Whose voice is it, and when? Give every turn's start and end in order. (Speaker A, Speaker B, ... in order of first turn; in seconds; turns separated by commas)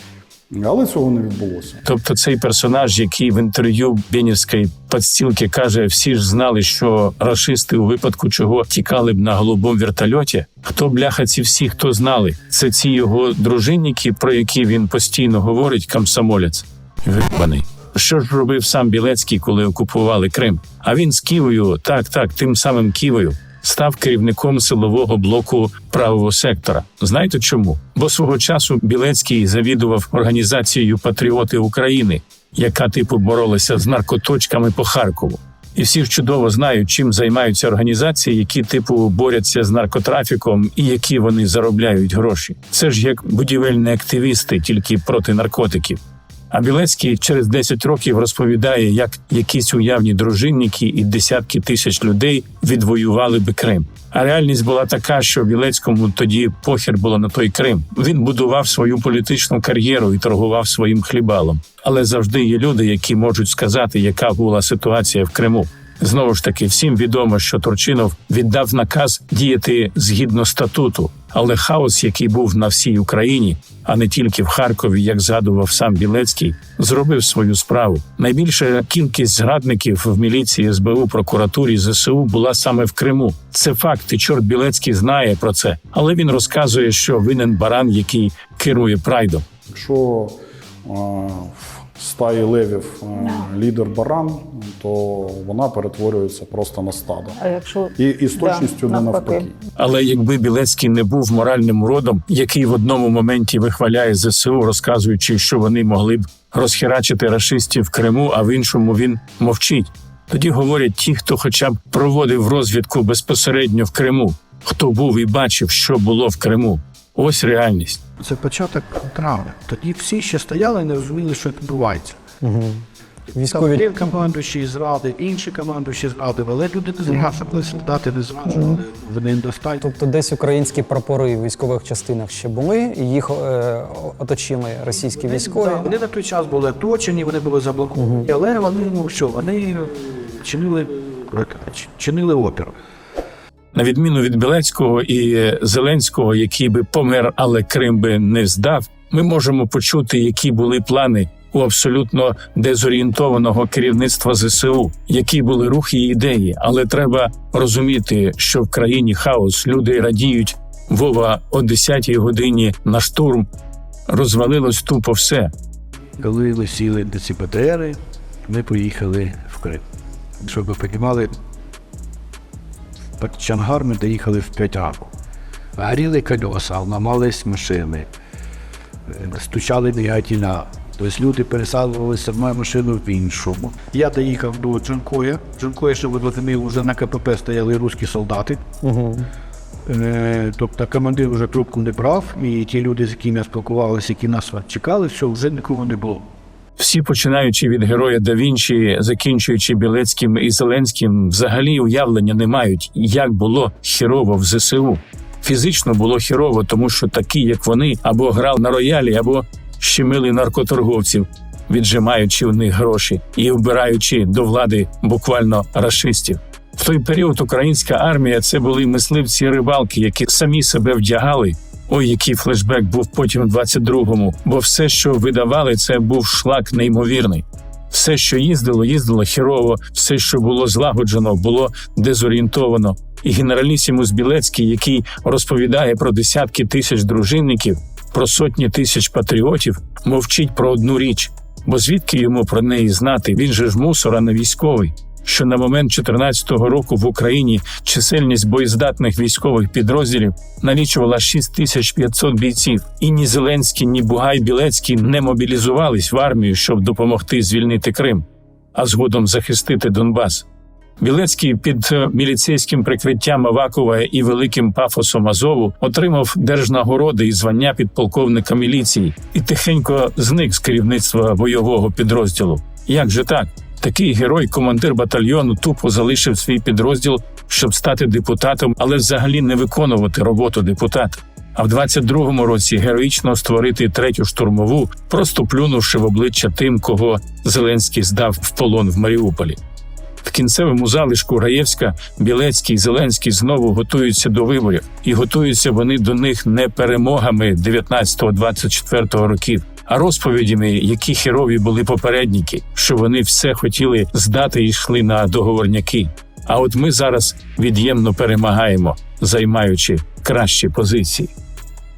Speaker A: 0.5-1.8, Speaker B: 1.8-46.0, Speaker B: 46.5-89.4, Speaker A: 89.7-97.4, Speaker C: 97.4-99.4, Speaker A: 98.0-99.6, Speaker B: 99.8-118.0, Speaker D: 118.2-122.2, Speaker E: 122.4-124.0, Speaker D: 123.4-129.9, Speaker E: 129.8-135.9, Speaker D: 135.2-142.8, Speaker E: 137.9-138.3, Speaker B: 143.7-163.5, Speaker B: 164.1-165.5, Speaker D: 166.2-169.8, Speaker D: 170.4-171.3, Speaker D: 173.2-175.1, Speaker D: 175.8-178.1, Speaker D: 179.1-188.6, Speaker E: 188.8-189.3, Speaker D: 189.9-196.2, Speaker B: 196.8-260.4, Speaker B: 261.0-289.6, Speaker B: 290.2-311.3